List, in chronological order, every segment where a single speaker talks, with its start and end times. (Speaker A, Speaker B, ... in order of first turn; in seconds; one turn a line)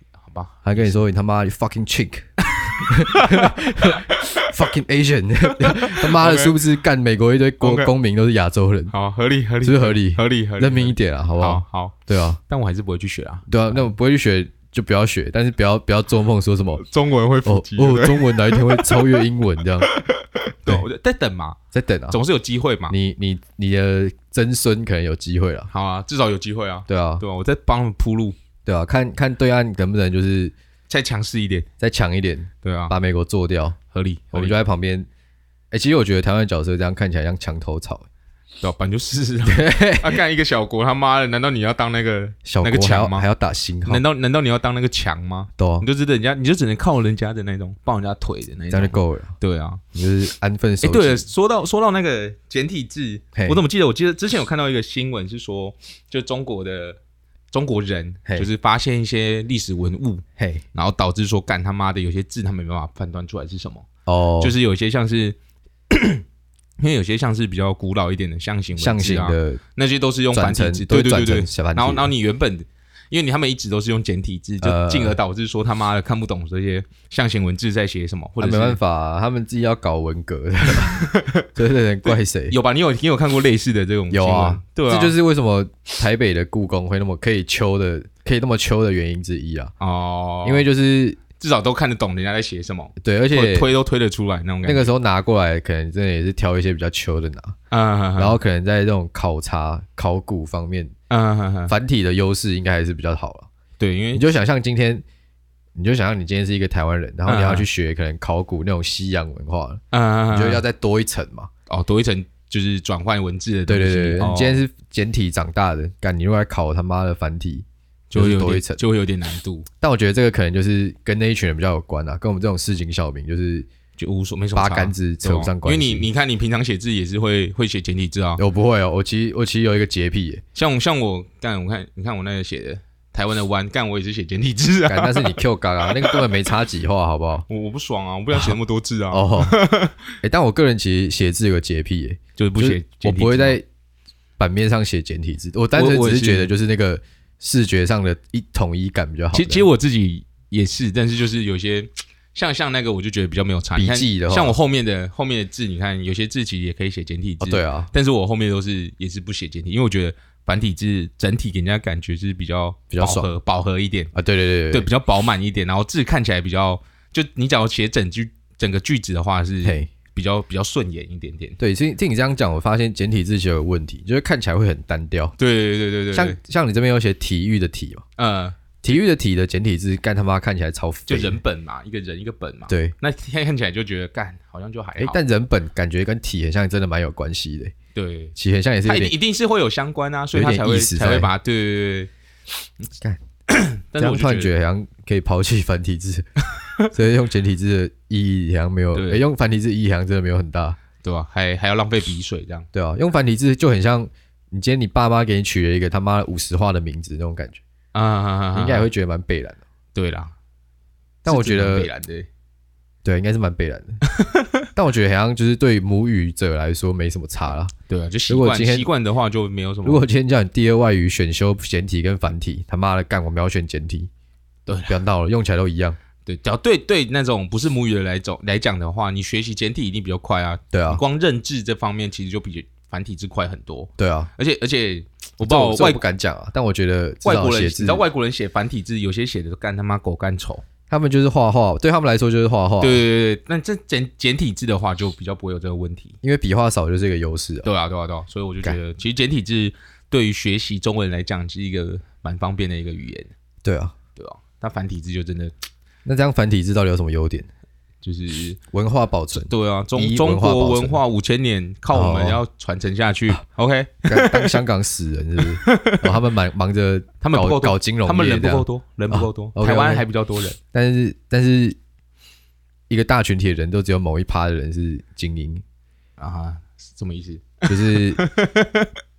Speaker A: 0.2-1.0
Speaker B: 0.6-8.9
Speaker A: 2.5-4.6
Speaker A: 5.5-6.6
Speaker A: 7.6-7.9
Speaker A: 8.9-13.9
Speaker B: 9.6-12.4
Speaker B: 13.5-16.8
Speaker A: 16.8-19.2
Speaker B: 17.4-19.9
Speaker A: 19.9-21.6
Speaker B: 21.7-22.2
Speaker A: 22.1-22.9
Speaker B: 22.9-25.7
Speaker A: 25.7-28.4
Speaker B: 26.9-27.2
Speaker B: 28.7-30.5
Speaker A: 30.9-31.7
Speaker B: 31.8-33.8
Speaker A: 32.6-32.9
Speaker A: 33.9-34.6
Speaker B: 34.3-35.1
Speaker B: 35.7-38.1
Speaker A: 38.6-43.2
Speaker B: 39.5-40.2
Speaker B: 42.5-44.0
Speaker A: 43.9-49.8
Speaker B: 45.6-45.9
Speaker B: 48.7-49.3
Speaker B: 49.9-51.3
Speaker A: 50.8-57.0
Speaker B: 53.4-53.6
Speaker A: 57.5-63.9
Speaker B: 60.4-60.6
Speaker B: 64.1-64.5
Speaker A: 64.4-65.4
Speaker A: 65.9-66.2
Speaker A: 66.8-78.8
Speaker B: 68.8-69.6
Speaker B: 70.3-72.1
Speaker B: 74.6-75.2
Speaker B: 78.4-82.6
Speaker A: 80.7-81.5
Speaker A: 82.1-85.2
Speaker B: 84.1-89.7
Speaker A: 89.8-90.7
Speaker B: 90.4-91.2
Speaker A: 91.4-94.9
Speaker B: 93.0-93.7
Speaker B: 94.6-97.5
Speaker A: 97.7-98.4
Speaker B: 98.2-100.9
Speaker A: 101.1-101.7
Speaker B: 101.7-103.5
Speaker A: 103.8-104.2
Speaker B: 104.1-105.0
Speaker B: 105.8-111.5
Speaker A: 107.3-107.7
Speaker A: 109.9-110.6
Speaker A: 111.7-114.6
Speaker B: 113.7-118.8
Speaker A: 118.1-119.7
Speaker B: 119.8-123.7
Speaker A: 124.0-128.4
Speaker B: 124.5-126.1
Speaker B: 128.4-130.4
Speaker A: 130.6-136.3
Speaker B: 134.9-137.5
Speaker A: 137.5-140.1
Speaker B: 139.1-139.6
Speaker B: 140.2-143.6
Speaker A: 142.4-143.6
Speaker B: 144.4-149.7
Speaker A: 145.7-146.5
Speaker A: 149.3-164.1
Speaker B: 153.8-154.6
Speaker B: 157.4-157.9
Speaker B: 162.9-163.3
Speaker B: 164.1-164.9
Speaker A: 164.7-171.6
Speaker B: 169.6-169.9
Speaker B: 171.6-175.3
Speaker A: 175.4-176.4
Speaker B: 176.1-178.0
Speaker A: 178.2-178.6
Speaker B: 178.8-181.4
Speaker A: 181.1-185.2
Speaker B: 182.7-182.9
Speaker B: 185.0-187.7
Speaker A: 187.9-192.1
Speaker B: 188.4-189.1
Speaker B: 190.3-191.3
Speaker A: 193.5-194.5
Speaker B: 194.0-196.2
Speaker A: 196.6-196.9
Speaker B: 196.9-200.8
Speaker A: 198.9-199.2
Speaker A: 201.0-202.7
Speaker B: 202.7-207.6
Speaker A: 207.9-208.9
Speaker B: 208.6-209.6
Speaker A: 209.9-210.3
Speaker A: 211.2-212.3
Speaker B: 211.2-211.9
Speaker B: 213.0-214.0
Speaker A: 214.1-214.7
Speaker B: 214.8-217.7
Speaker A: 217.9-220.0
Speaker B: 218.3-218.9
Speaker B: 219.8-224.1
Speaker A: 224.7-225.0
Speaker B: 224.9-226.0
Speaker A: 226.2-236.0
Speaker B: 230.7-231.0
Speaker B: 234.0-234.3
Speaker B: 235.4-238.1
Speaker A: 237.2-240.6
Speaker B: 240.9-243.0
Speaker A: 242.8-246.2
Speaker B: 246.2-247.7
Speaker A: 247.6-253.3
Speaker B: 253.6-253.9
Speaker A: 254.2-255.5
Speaker B: 256.1-257.5
Speaker A: 258.0-258.6
Speaker B: 258.7-261.0
Speaker A: 259.4-264.6
Speaker B: 261.9-262.4
Speaker B: 264.1-270.1
Speaker A: 265.4-266.2
Speaker A: 267.2-270.6
Speaker B: 270.7-271.8
Speaker B: 272.9-275.6
Speaker A: 276.2-278.9
Speaker B: 277.7-278.2